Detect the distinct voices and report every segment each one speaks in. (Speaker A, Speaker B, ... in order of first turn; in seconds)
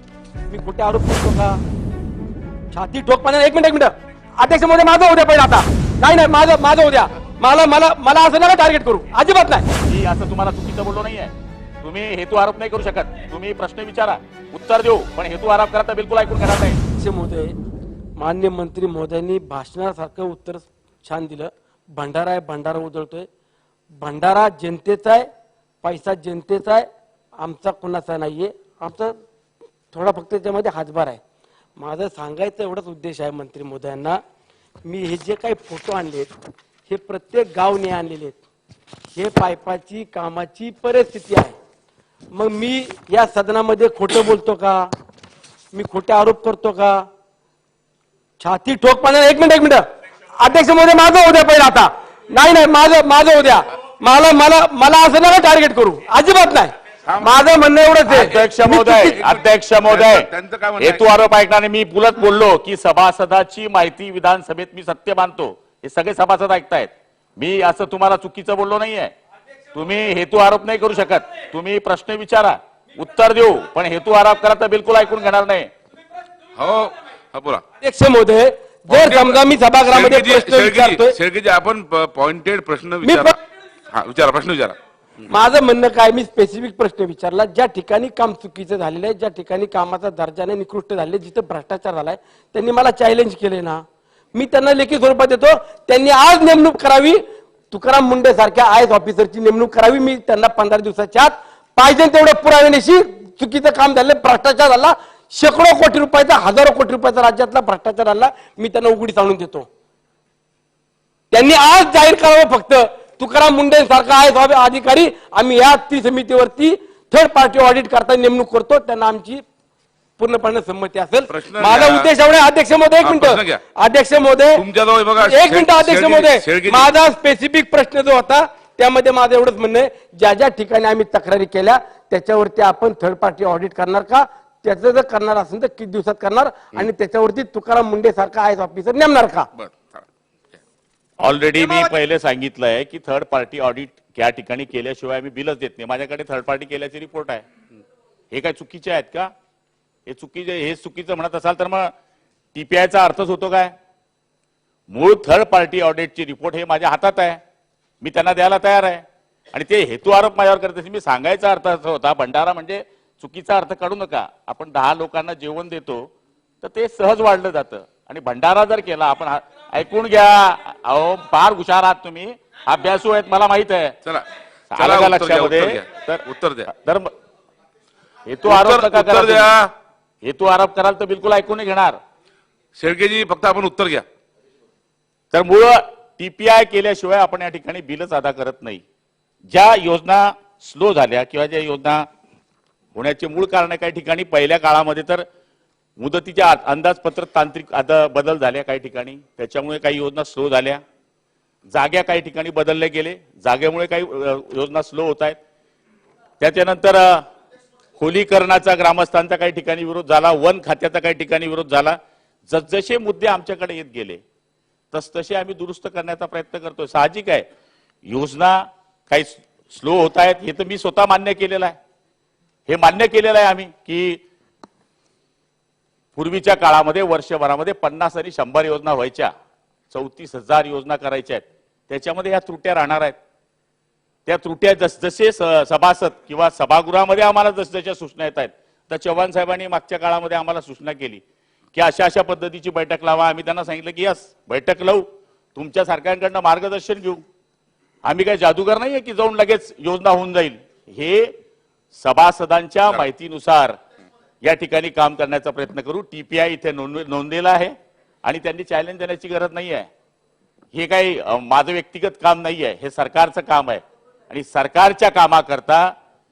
Speaker A: 0.5-1.6, 2.7-9.7, 17.0-17.5, 18.2-23.3, 24.0-25.3, 25.8-26.9, 27.4-29.2, 29.9-31.2, 31.8-34.2, 34.9-36.3, 36.9-38.4, 39.2-41.6, 42.3-44.9, 45.7-47.1, 48.4-49.8, 50.4-59.2, 77.8-81.2, 83.0-83.4, 85.3-93.8, 94.3-109.7, 111.3-119.4, 120.2-124.6, 125.2-139.5, 141.6-141.9
Speaker B: 9.9-16.8, 58.1-69.1, 69.7-75.7, 141.2-147.4, 148.3-149.3, 150.1-151.9, 152.5-153.7, 154.9-157.4, 158.0-166.1, 166.6-174.0, 174.7-177.1, 178.2-179.6, 180.2-182.0, 185.3-188.8, 189.5-192.0, 192.9-195.2, 196.0-200.8, 201.7-205.4, 206.4-207.2, 208.0-214.2, 214.9-217.4, 218.1-221.8, 222.7-224.2, 226.2-229.3, 229.9-233.2, 234.3-241.2, 241.7-247.2, 248.1-251.3, 251.9-253.8, 254.4-257.7, 258.2-259.9, 260.7-265.9
Speaker C: 57.1-57.3, 59.1-61.1, 76.6-77.6, 78.9-83.3, 83.9-84.8, 121.3-122.1, 123.0-123.6, 124.5-126.9, 139.6-140.1, 174.8-176.7, 178.5-179.7, 182.8-184.1